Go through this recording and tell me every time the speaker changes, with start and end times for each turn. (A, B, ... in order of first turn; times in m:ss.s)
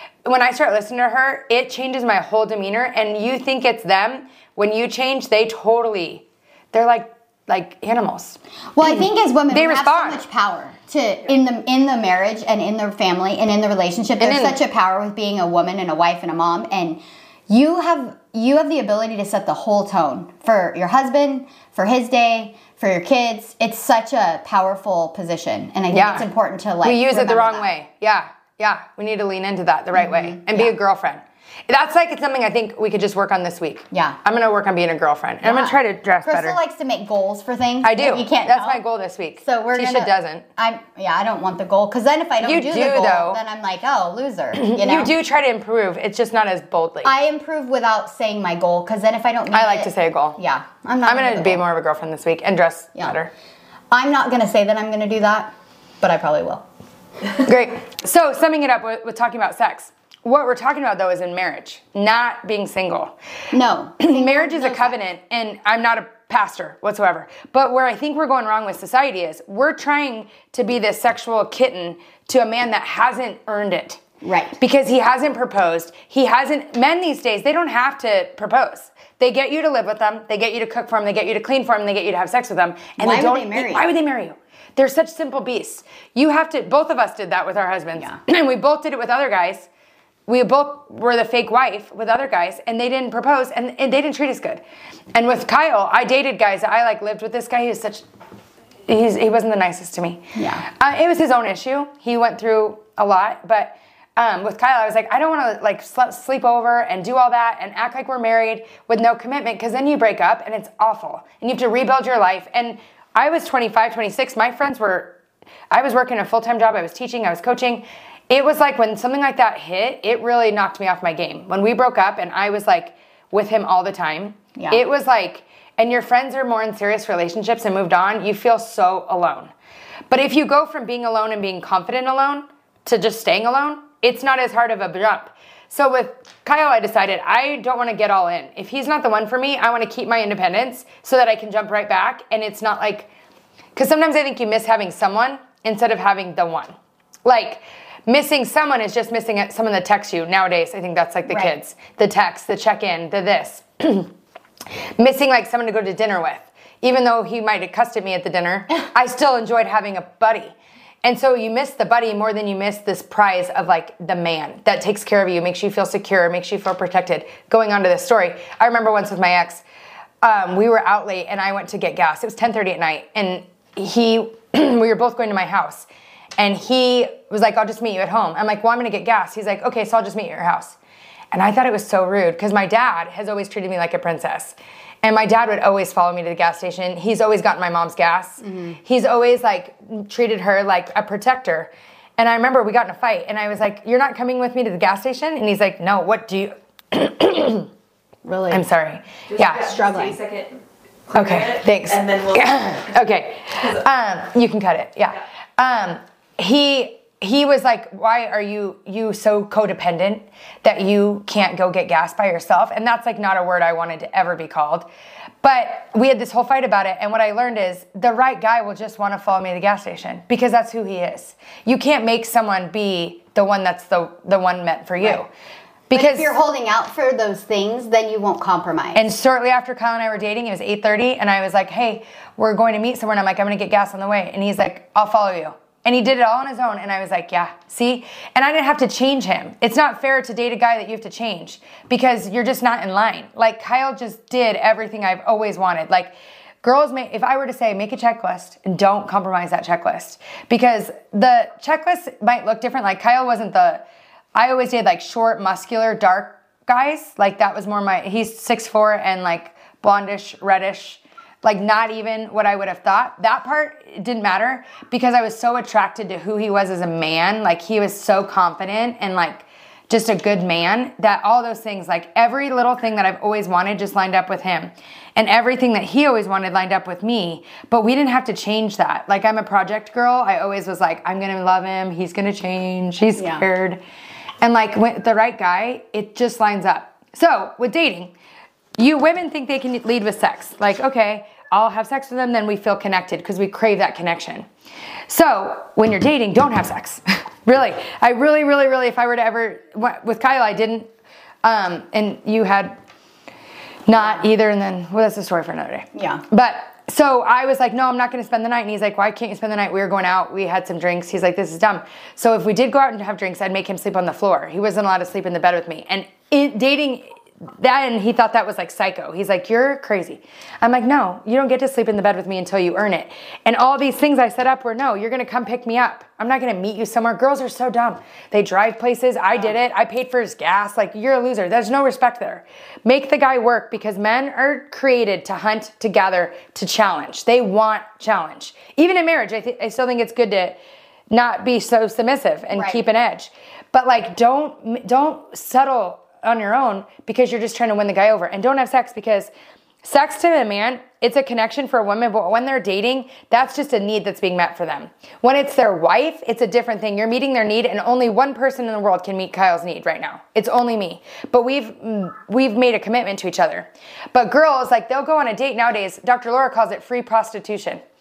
0:00.2-0:10.2 A
0:08.7-0:27.7 B
0:14.2-0:14.6 A
0:25.9-0:26.3 A
0:26.8-0:36.6 A
0:29.9-0:30.7 B
0:33.9-0:34.2 B
0:35.4-0:38.8 B
0:37.8-0:40.4 A
0:39.4-0:45.1 B
0:42.4-0:43.4 A
0:44.6-0:47.1 A
0:47.0-0:51.6 B
0:49.5-0:50.4 A
0:51.0-0:53.3 A
0:53.9-0:55.5 B
0:56.0-0:56.6 B
0:57.4-1:03.1 A
1:03.5-1:05.0 B
1:04.0-1:14.0 A
1:14.2-1:14.6 B
1:14.6-1:29.7 A
1:23.0-1:23.9 B
1:30.3-1:34.6 A
1:35.1-1:38.0 A
1:38.9-1:55.1 A
1:40.4-1:40.6 B
1:55.7-2:09.5 A
2:04.6-2:04.8 B
2:10.1-2:23.1 A
2:23.7-2:34.1 A
2:35.0-2:49.6 A
2:50.2-3:00.8 A
3:01.3-3:17.7 A
3:08.4-3:08.8 B
3:18.2-3:18.6 B
3:18.5-3:19.7 A
3:19.3-3:22.8 C
3:19.6-3:20.2 B
3:21.1-3:34.9 A
3:35.4-3:45.3 A
3:45.9-3:46.3 A
3:45.9-3:49.1 B
3:49.0-4:13.8 A
4:14.3-4:43.8 A
4:43.2-4:43.4 B
4:44.4-4:48.1 A
4:48.8-4:54.5 A
4:55.1-5:00.9 A
5:01.4-5:02.8 A
5:03.9-5:40.6 A
5:03.9-5:04.2 B
5:05.9-5:06.2 B
5:41.1-5:49.3 A
5:42.5-5:42.8 B
5:49.8-6:07.8 A